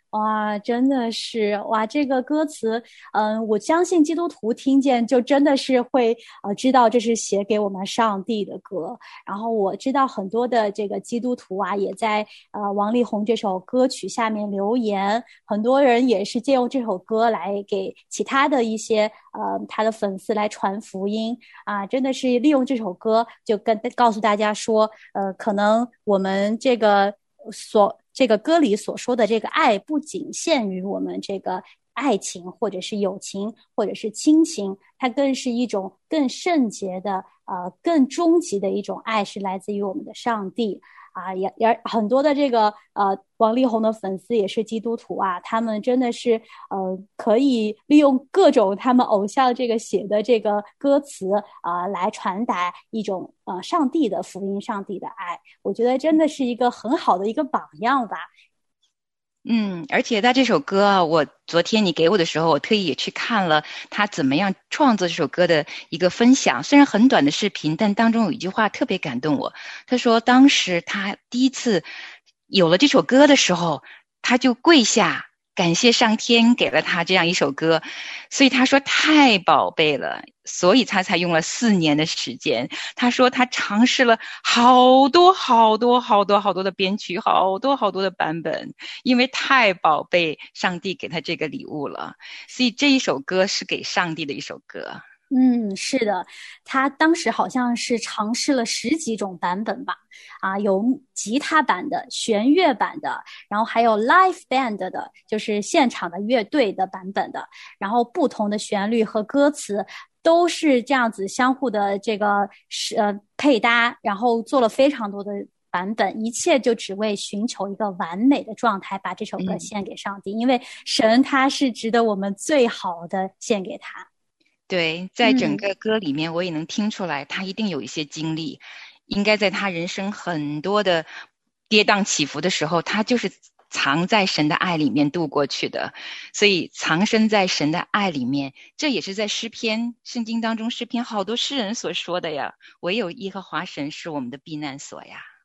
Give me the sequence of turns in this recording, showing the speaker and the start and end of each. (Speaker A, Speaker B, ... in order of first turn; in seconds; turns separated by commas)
Speaker A: 0.1-58.3, Speaker B: 59.4-71.9, Speaker B: 72.5-95.0, Speaker A: 95.3-124.1, Speaker B: 119.4-119.7, Speaker B: 124.7-131.1, Speaker A: 125.2-125.7, Speaker B: 131.7-145.3